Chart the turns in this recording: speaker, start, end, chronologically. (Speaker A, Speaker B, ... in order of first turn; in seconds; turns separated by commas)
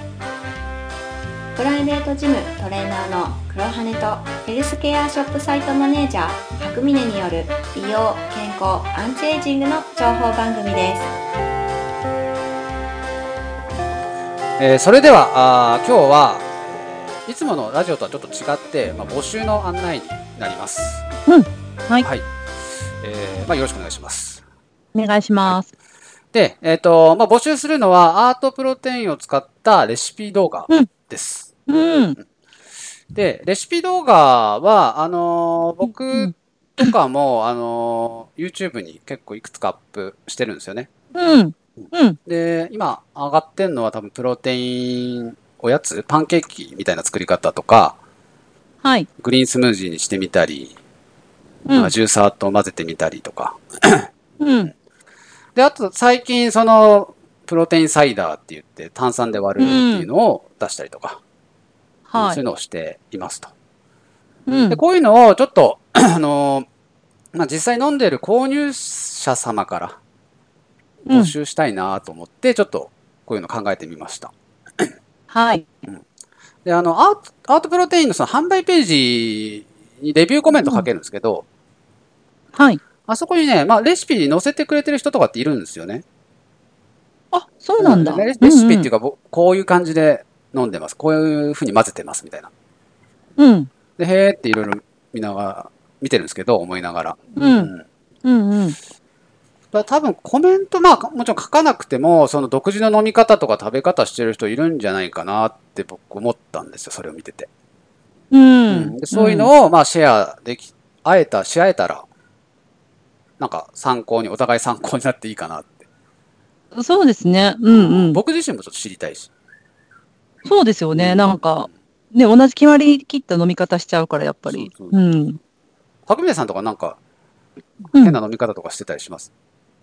Speaker A: 1.6-11.1, Speaker B: 14.6-21.1, Speaker C: 21.3-22.1, Speaker B: 22.0-22.3, Speaker B: 23.0-24.4, Speaker C: 24.9-25.7, Speaker B: 26.3-31.6, Speaker C: 31.7-32.2, Speaker B: 33.1-40.9, Speaker C: 35.9-36.9, Speaker C: 41.1-42.2, Speaker B: 41.8-48.0, Speaker C: 48.8-49.1, Speaker B: 49.2-50.8, Speaker C: 51.7-51.9, Speaker B: 51.7-54.1, Speaker C: 54.4-54.7, Speaker B: 55.6-61.2, Speaker C: 59.6-60.1, Speaker C: 62.1-62.4, Speaker B: 62.2-63.5, Speaker C: 64.5-64.8, Speaker B: 64.7-66.7, Speaker B: 67.3-70.0, Speaker C: 71.1-71.3, Speaker B: 71.1-74.9, Speaker C: 75.3-75.7, Speaker B: 76.7-81.5, Speaker C: 80.6-80.9, Speaker C: 82.5-82.8, Speaker B: 83.1-86.0, Speaker C: 87.3-88.9, Speaker B: 87.8-92.5, Speaker C: 93.4-93.7, Speaker B: 94.0-97.8, Speaker C: 97.4-97.7, Speaker C: 98.2-98.8, Speaker B: 99.7-107.5, Speaker C: 108.3-109.5, Speaker B: 108.7-112.1, Speaker B: 113.4-115.8, Speaker C: 116.8-118.2, Speaker B: 117.7-119.3, Speaker C: 120.5-125.4, Speaker B: 121.0-121.3, Speaker B: 124.5-125.0, Speaker B: 126.1-127.0, Speaker B: 128.0-129.3